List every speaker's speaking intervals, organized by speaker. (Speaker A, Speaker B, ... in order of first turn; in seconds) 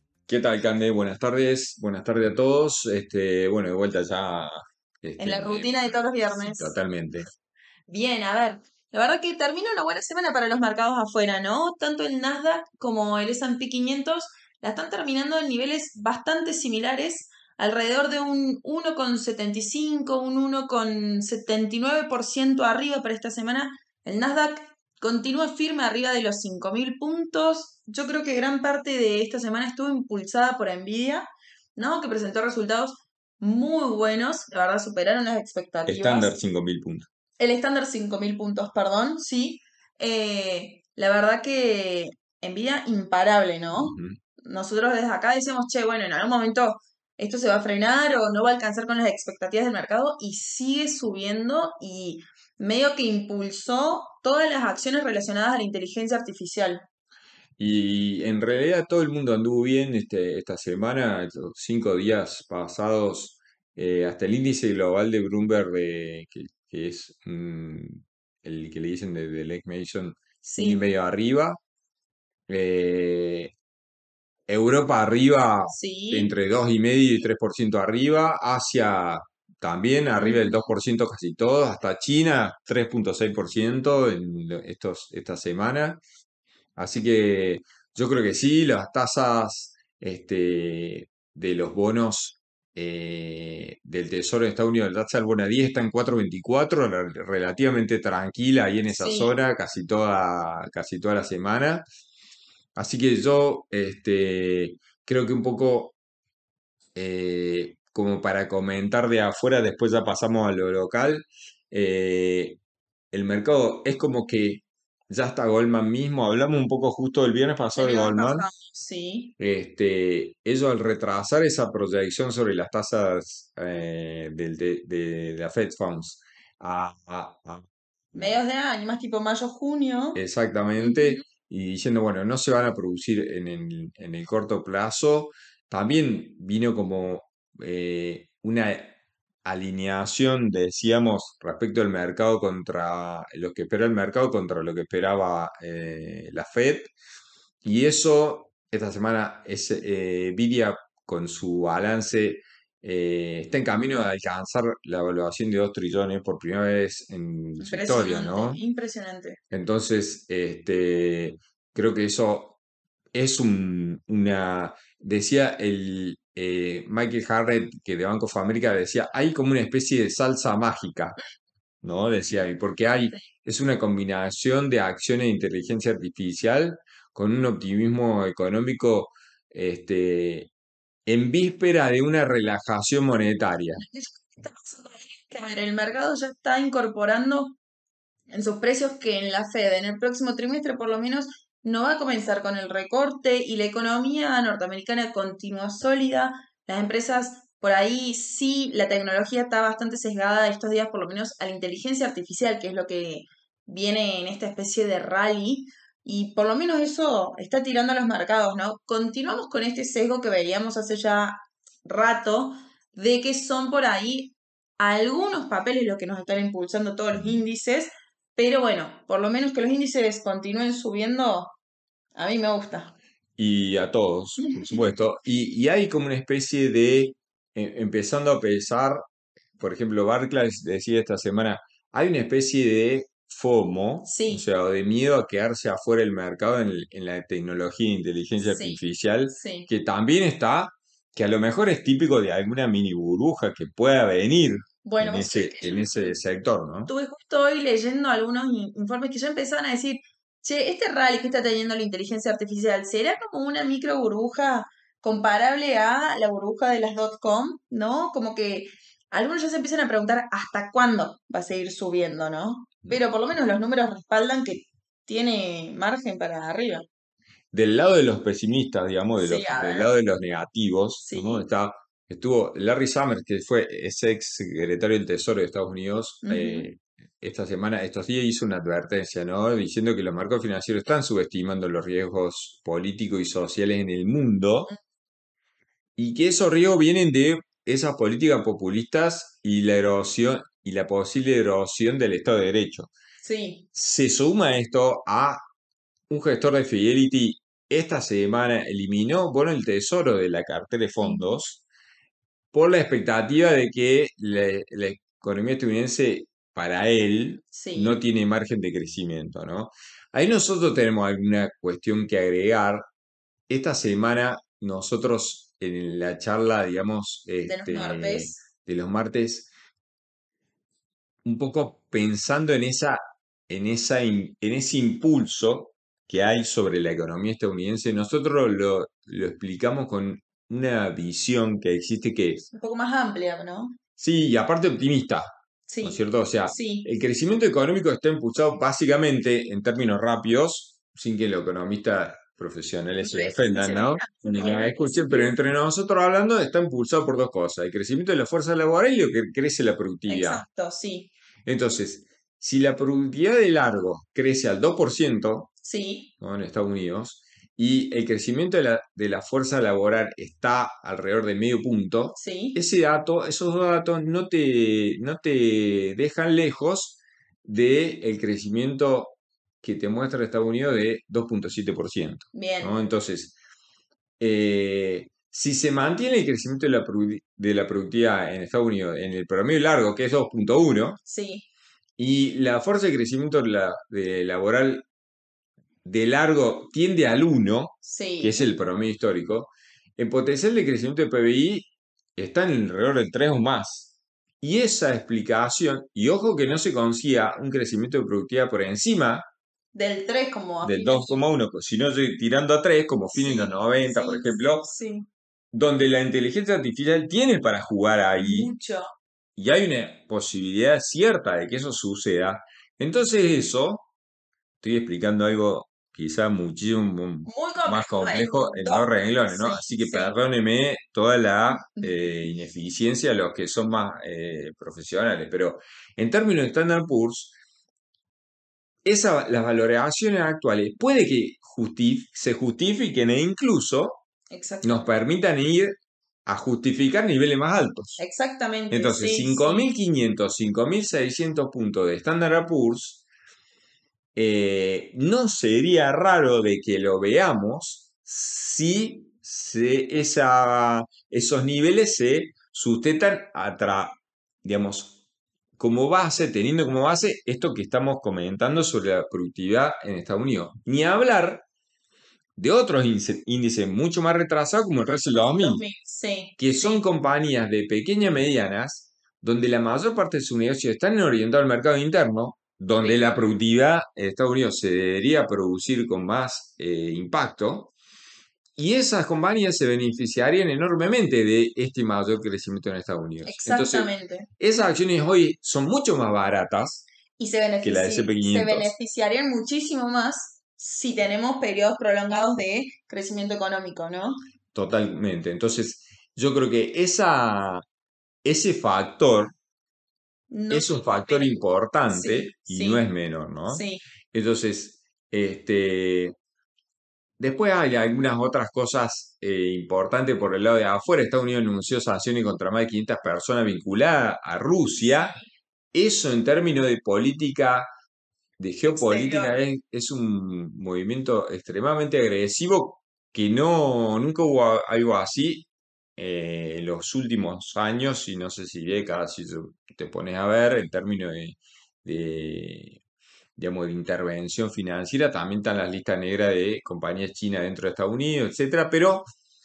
Speaker A: 0.3-7.3, 35.9-37.1, 43.7-44.2, 57.6-71.6, 72.5-73.5, 74.5-86.0, 86.8-101.8, 102.8-106.0, 106.9-112.6, 113.1-118.5, 119.4-128.3, 130.1-146.9, 147.6-158.6, 159.5-162.6, 163.1-171.2, 171.8-180.5, 181.1-183.8, 217.1-217.4, 223.4-229.1, 229.6-246.9, 267.5-284.7, 286.0-292.9, 293.7-295.4, 296.1-301.6, 302.5-312.9, 313.5-319.5, 321.2-332.4, 334.0-350.4, 351.4-355.5, 356.2-373.4, 374.2-381.0, 382.0-384.9, 385.8-399.3, 400.6-404.7, 405.5-408.5, 409.4-413.9, 414.6-427.3, 428.8-434.0, 434.6-438.0, 438.7-443.0, 444.1-455.0, 455.6-461.4, 462.4-465.6, 466.4-477.7, 478.6-486.9, 487.6-488.7, 494.5-497.6, 498.2-499.3, 500.5-506.1, 507.2-515.2, 515.7-517.7, 518.4-532.8, 533.4-539.1
Speaker B: 5.2-6.7, 7.9-36.3, 37.4-56.9, 70.4-70.8, 75.7-76.3, 80.2-80.7, 98.9-99.3, 117.8-119.3, 128.1-130.2, 130.8-131.2, 157.6-159.4, 183.8-187.6, 188.3-221.6, 222.1-222.9, 224.4-224.8, 234.1-234.4, 238.4-239.7, 244.8-246.2, 246.9-266.9, 269.1-269.9, 271.0-271.4, 276.2-276.7, 293.2-293.6, 301.0-301.4, 307.5-307.9, 317.4-318.4, 332.5-333.8, 335.7-336.9, 343.0-345.3, 350.1-351.1, 355.6-356.1, 362.1-362.6, 372.3-372.8, 381.0-381.5, 387.8-388.5, 399.7-401.2, 403.1-405.1, 408.2-408.9, 417.2-420.1, 421.5-422.1, 434.3-434.8, 438.0-439.7, 464.8-466.8, 472.7-473.1, 483.2-484.3, 487.2-494.2, 500.3-502.8, 503.5-503.8, 518.7-519.4